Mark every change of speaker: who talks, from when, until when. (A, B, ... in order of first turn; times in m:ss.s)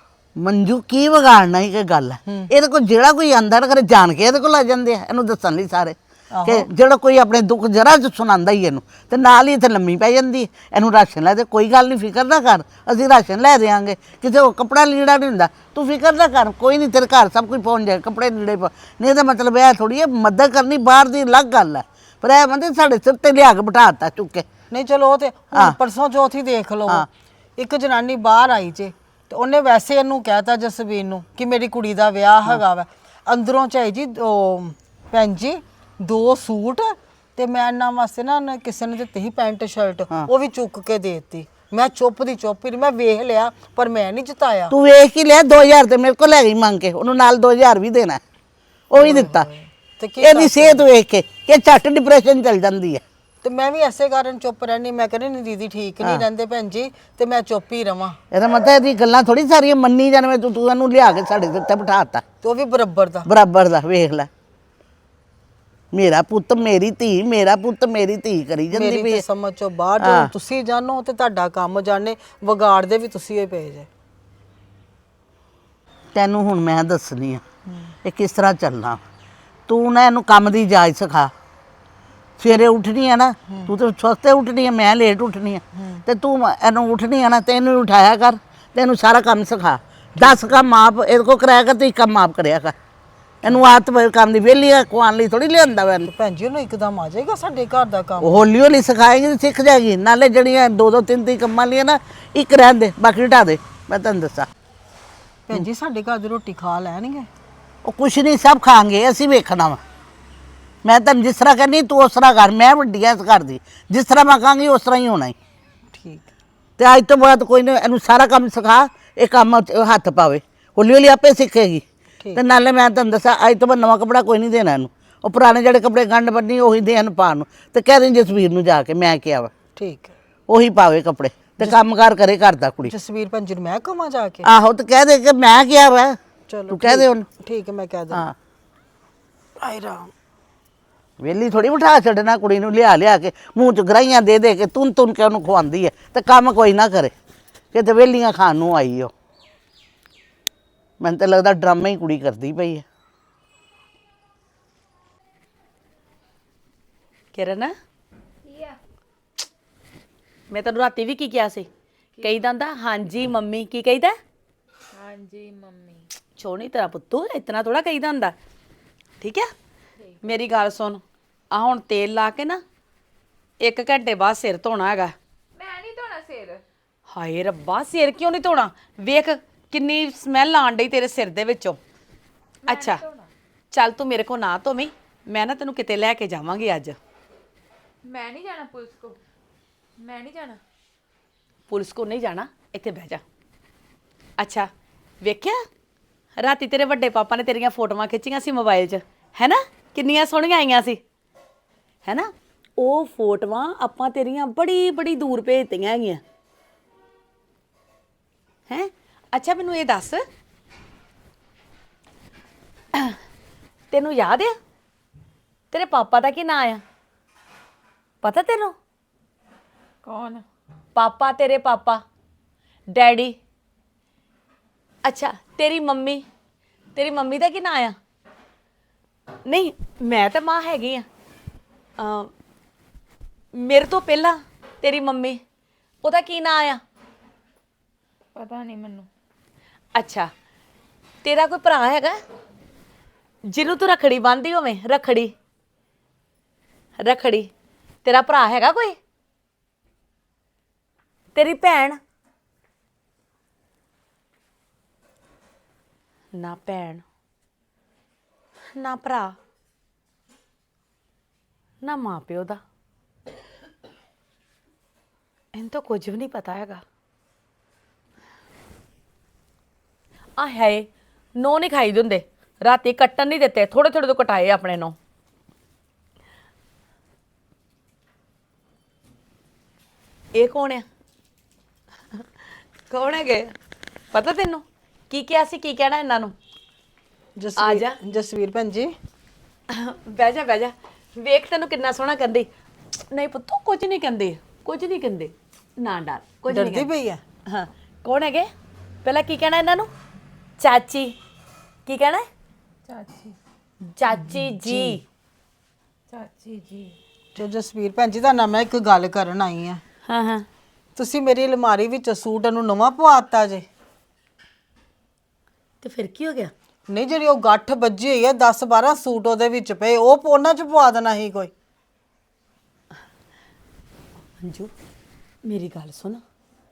0:00.4-0:24.5 A
0:02.3-0:02.5 B
0:06.3-0:06.7 B
0:24.7-0:44.8 B
0:44.7-0:48.2 A
0:48.9-0:49.5 A
0:49.0-0:50.9 B
0:50.2-0:53.0 A
0:53.4-0:58.2 B
0:58.3-1:02.2 A
1:02.4-1:03.3 B
1:03.2-1:04.3 A
1:05.9-1:09.2 A
1:08.7-1:13.9 B
1:10.0-1:10.3 A
1:16.1-1:17.4 A
1:18.0-1:19.0 A
1:19.7-1:21.3 A
1:22.4-1:32.8 A
1:33.4-1:33.7 B
1:33.4-1:36.1 A
1:36.1-1:38.4 B
1:38.2-1:44.5 A
1:45.5-1:47.3 B
1:47.8-1:49.8 A
1:50.8-1:55.4 A
1:55.9-1:56.3 B
1:56.8-2:01.8 A
2:02.4-2:09.5 A
2:09.8-2:10.1 B
2:10.5-2:12.9 A
2:12.9-2:14.5 B
2:14.4-2:16.2 A
2:16.5-2:18.3 B
2:16.7-2:17.3 A
2:19.6-2:20.1 B
2:21.2-2:27.1 A
2:27.7-2:29.1 A
2:31.0-2:32.8 A
2:37.3-2:37.7 C
2:38.5-2:38.8 D
2:40.5-2:41.7 C
2:42.2-2:44.2 C
2:44.9-2:46.1 D
2:46.4-2:48.4 C
2:49.2-2:49.5 C
2:50.2-2:52.6 C
2:53.6-2:55.2 C
2:55.6-2:56.6 D
2:57.1-3:01.8 C
3:02.6-3:03.3 D
3:02.7-3:03.0 C
3:03.7-3:07.0 C
3:08.0-3:09.2 D
3:10.0-3:10.6 D
3:11.7-3:13.2 C
3:14.4-3:14.7 C
3:15.2-3:15.6 C
3:16.4-3:21.0 C
3:22.0-3:26.2 C
3:28.7-3:30.2 C
3:33.9-3:34.6 C
3:35.7-3:36.8 C
3:38.2-3:38.8 C
3:40.0-3:40.4 D
3:41.0-3:42.0 C
3:42.9-3:43.4 C
3:45.0-3:46.2 C
3:47.0-3:48.0 C
3:49.4-3:51.1 C
3:52.0-3:52.3 C
3:53.5-3:55.4 C
3:56.0-3:56.8 C
3:58.4-3:59.1 D
4:00.0-4:00.3 C
4:01.2-4:02.2 C
4:03.5-4:05.3 C
4:07.0-4:07.5 C
4:08.0-4:09.0 C
4:11.4-4:12.0 C
4:16.3-4:17.0 C
4:18.7-4:19.4 C
4:21.8-4:22.6 C
4:25.5-4:26.8 C
4:30.4-4:35.0 C
4:40.4-4:40.8 C
4:42.9-4:43.5 C
4:44.1-4:46.4 C
4:47.4-4:48.9 B
4:47.6-4:48.0 C
4:49.7-4:52.5 C
4:53.1-4:56.9 C
4:56.5-4:57.2 B
4:57.5-4:58.5 C
4:59.0-4:59.9 C
5:00.6-5:01.2 C
5:01.9-5:02.3 C
5:02.9-5:03.4 D
5:04.0-5:05.0 C
5:04.1-5:05.0 B
5:06.1-5:07.0 D
5:07.4-5:09.8 B
5:10.1-5:10.5 C
5:11.0-5:13.6 B
5:15.8-5:16.5 C
5:16.9-5:21.5 B
5:24.4-5:24.7 C
5:25.4-5:26.2 C